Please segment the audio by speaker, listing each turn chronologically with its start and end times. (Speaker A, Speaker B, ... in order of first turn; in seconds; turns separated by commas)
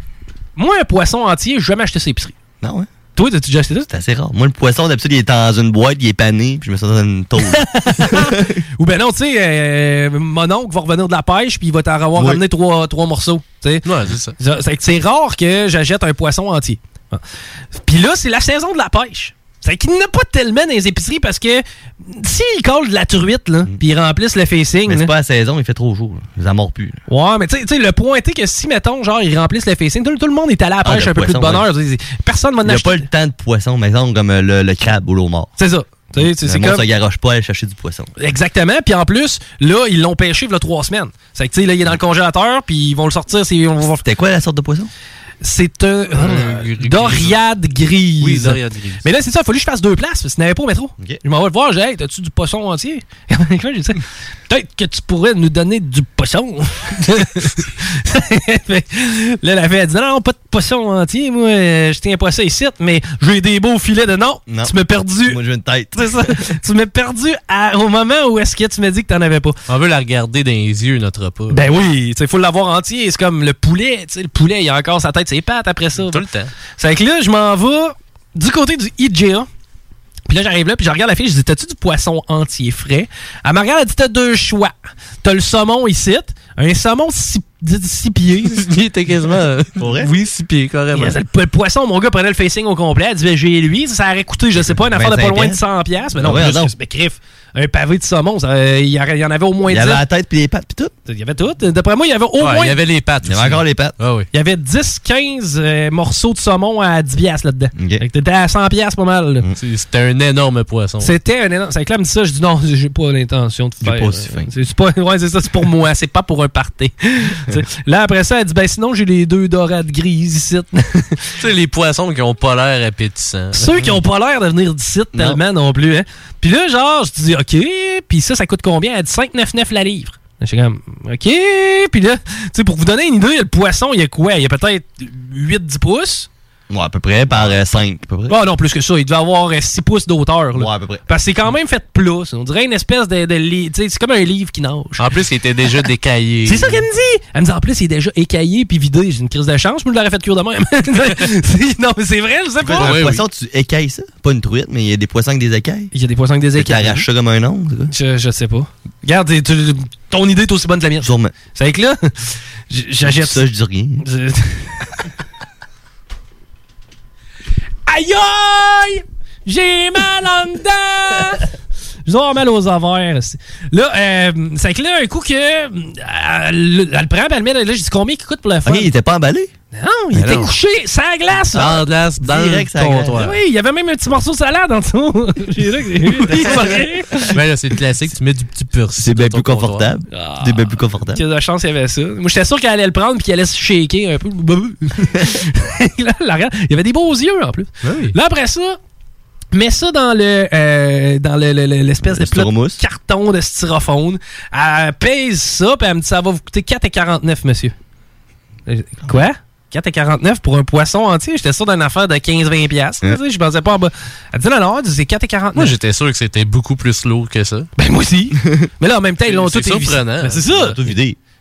Speaker A: 0.6-2.3, Speaker B: 2.6-2.9, Speaker A: 3.1-3.9, Speaker B: 3.9-8.6, Speaker A: 7.5-13.8, Speaker C: 13.8-14.3, Speaker A: 14.4-17.2, Speaker A: 17.8-25.1, Speaker B: 24.9-27.0, Speaker A: 27.1-33.1, Speaker B: 30.8-31.7, Speaker B: 32.6-35.5, Speaker A: 35.6-36.8, Speaker B: 36.1-38.1, Speaker A: 38.2-44.0, Speaker B: 44.0-44.9, Speaker A: 45.4-65.4, Speaker C: 46.1-47.4, Speaker C: 48.2-49.0, Speaker B: 64.5-64.7, Speaker B: 65.2-66.3, Speaker A: 65.9-69.6, Speaker C: 69.7-71.7, Speaker A: 71.5-76.3, Speaker C: 76.0-76.5, Speaker A: 76.8-79.5, Speaker A: 80.3-88.6, Speaker C: 88.5-91.2, Speaker B: 89.8-90.1, Speaker A: 90.9-100.0, Speaker B: 94.6-95.6, Speaker B: 96.2-96.7, Speaker B: 99.7-100.9, Speaker A: 101.0-102.8, Speaker C: 102.4-104.3, Speaker B: 103.2-103.9, Speaker A: 104.3-109.5, Speaker B: 107.7-108.0, Speaker C: 109.6-111.1, Speaker A: 111.0-121.2, Speaker B: 113.8-114.5, Speaker C: 121.4-123.9, Speaker A: 123.5-136.3, Speaker B: 125.1-125.4, Speaker B: 136.7-138.4, Speaker A: 138.3-145.1, Speaker B: 140.5-141.0, Speaker C: 145.0-146.8, Speaker A: 146.4-153.1, Speaker B: 152.6-155.9, Speaker C: 152.7-153.2, Speaker A: 155.9-157.1, Speaker B: 156.6-157.9, Speaker A: 157.9-163.4, Speaker B: 161.0-161.3, Speaker B: 163.0-164.0, Speaker A: 164.0-164.8, Speaker A: 167.9-171.5, Speaker A: 172.1-178.9, Speaker B: 178.6-179.5, Speaker A: 179.7-181.8, Speaker C: 180.2-180.5, Speaker B: 181.5-183.2, Speaker C: 181.5-183.4, Speaker A: 183.1-187.4, Speaker C: 187.3-189.9, Speaker B: 188.9-191.2, Speaker A: 190.1-198.8, Speaker C: 197.8-198.1, Speaker A: 199.5-207.7, Speaker B: 202.1-202.8, Speaker A: 208.7-215.7, Speaker C: 215.6-217.7, Speaker A: 217.8-220.8, Speaker C: 219.2-220.5, Speaker B: 220.4-221.2